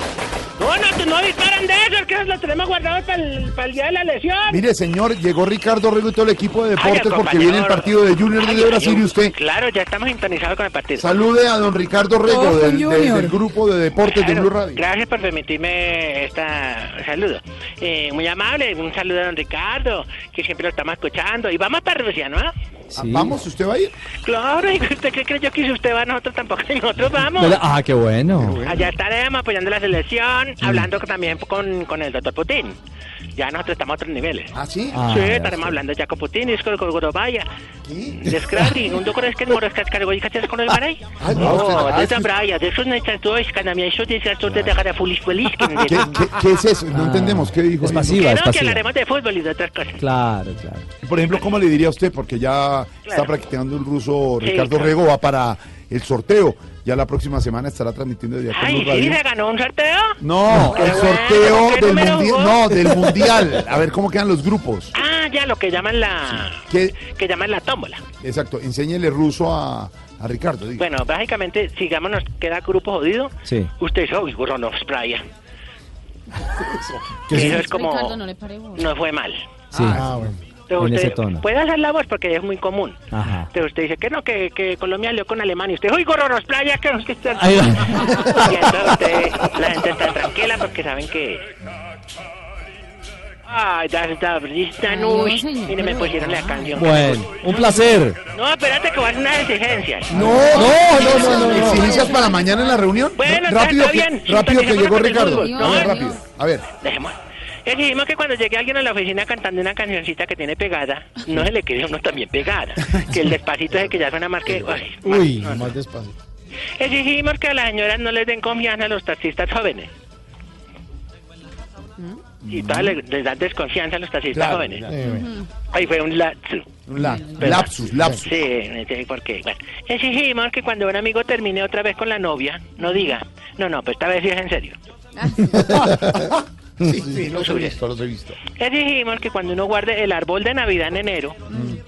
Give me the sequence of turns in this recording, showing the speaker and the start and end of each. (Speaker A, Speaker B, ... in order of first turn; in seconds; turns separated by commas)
Speaker A: 0.6-4.6, Speaker B: 4.5-9.3, Speaker A: 6.8-11.1, Speaker B: 10.9-14.8, Speaker C: 12.3-13.4, Speaker A: 14.0-22.5, Speaker B: 22.9-23.9, Speaker D: 22.9-23.4, Speaker A: 24.2-27.6, Speaker D: 27.4-28.6, Speaker B: 28.3-28.9, Speaker A: 28.6-32.8, Speaker D: 30.6-30.9, Speaker A: 33.4-37.5, Speaker B: 34.5-35.1, Speaker D: 34.9-35.8, Speaker B: 37.9-38.4, Speaker A: 38.1-46.2, Speaker B: 41.2-42.3, Speaker D: 41.3-41.8, Speaker B: 44.4-44.8, Speaker B: 45.8-48.3, Speaker D: 46.9-48.9, Speaker A: 48.1-50.0, Speaker D: 50.0-50.9, Speaker B: 51.0-59.2, Speaker A: 53.1-53.3, Speaker A: 54.4-55.0, Speaker A: 58.5-63.4, Speaker B: 60.2-65.0, Speaker D: 60.5-60.8, Speaker A: 64.9-68.0, Speaker B: 66.4-67.0, Speaker B: 68.2-70.9, Speaker A: 70.8-75.2, Speaker D: 73.5-73.7, Speaker B: 76.5-77.0, Speaker E: 77.3-77.6, Speaker A: 77.3-78.2, Speaker C: 77.4-78.9, Speaker A: 78.8-79.5, Speaker B: 79.7-80.3, Speaker D: 79.7-80.1, Speaker E: 79.9-80.4, Speaker A: 80.7-91.5, Speaker D: 80.8-81.5, Speaker D: 83.1-83.5, Speaker D: 87.4-89.5, Speaker A: 93.5-97.3, Speaker C: 94.8-96.8, Speaker D: 96.7-98.2, Speaker A: 98.3-100.5, Speaker B: 100.1-106.7, Speaker D: 100.1-101.9, Speaker C: 100.4-102.8, Speaker A: 103.2-106.0, Speaker C: 105.2-106.2, Speaker A: 106.8-107.2, Speaker A: 107.7-115.8, Speaker E: 115.0-116.2, Speaker A: 116.8-119.9, Speaker B: 122.4-123.0, Speaker A: 122.5-124.9, Speaker B: 124.3-125.0, Speaker E: 124.9-125.3, Speaker C: 125.1-125.5, Speaker A: 125.7-126.7, Speaker B: 126.9-128.5, Speaker C: 127.2-127.5, Speaker A: 127.4-134.8, Speaker C: 135.2-135.6, Speaker B: 135.5-138.4, Speaker E: 135.7-136.2, Speaker A: 137.3-137.8, Speaker A: 138.5-141.4, Speaker B: 141.5-141.8